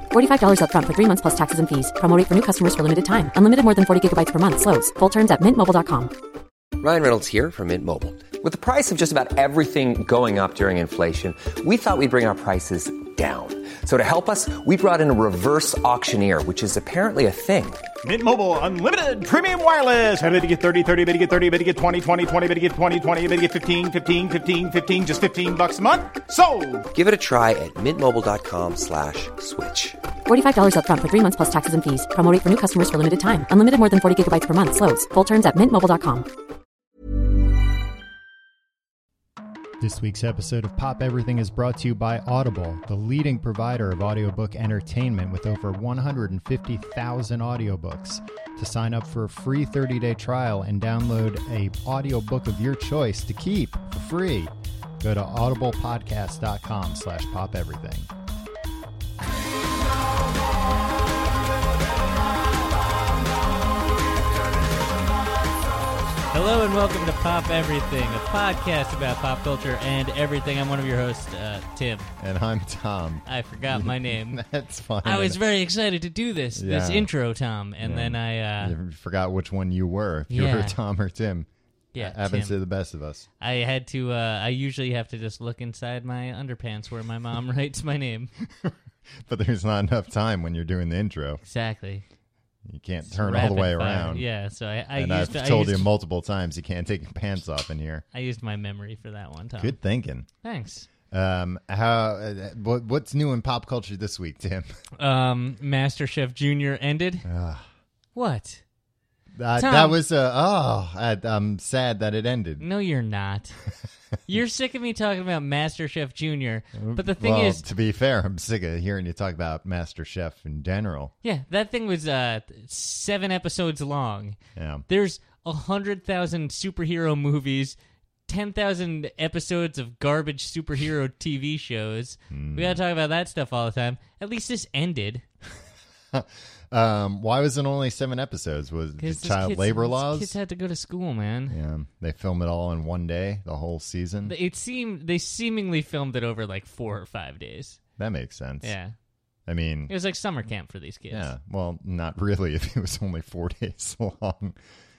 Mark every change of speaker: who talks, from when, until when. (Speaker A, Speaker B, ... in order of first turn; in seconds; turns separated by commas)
Speaker A: 0.1-6.1, Speaker B: 6.8-17.8, Speaker C: 18.0-26.9, Speaker B: 26.9-30.0, Speaker A: 30.3-36.3, Speaker D: 39.8-58.1, Speaker E: 66.3-72.1, Speaker D: 72.2-75.4, Speaker E: 73.3-74.4, Speaker E: 75.0-78.8, Speaker D: 76.6-77.1, Speaker D: 77.8-83.2, Speaker E: 80.3-80.8, Speaker E: 81.9-82.6, Speaker E: 83.4-88.3, Speaker D: 88.6-91.4, Speaker E: 91.4-92.0, Speaker D: 92.7-94.3, Speaker E: 93.1-95.9, Speaker D: 95.0-98.0, Speaker E: 98.1-99.8, Speaker D: 99.6-100.3, Speaker E: 100.4-100.9, Speaker D: 101.1-104.7, Speaker E: 105.0-107.3, Speaker D: 107.2-107.7, Speaker E: 108.2-108.6, Speaker D: 109.3-112.7, Speaker E: 109.6-110.0, Speaker E: 112.6-113.6, Speaker E: 114.3-117.6, Speaker D: 116.8-121.1, Speaker E: 121.2-135.2, Speaker D: 124.6-124.9, Speaker D: 132.3-132.8, Speaker D: 136.1-140.4, Speaker E: 139.0-141.6, Speaker D: 141.5-144.3, Speaker E: 144.2-147.8, Speaker D: 148.0-148.8, Speaker E: 148.6-148.9, Speaker D: 149.5-149.9, Speaker E: 149.9-151.3, Speaker D: 151.1-154.6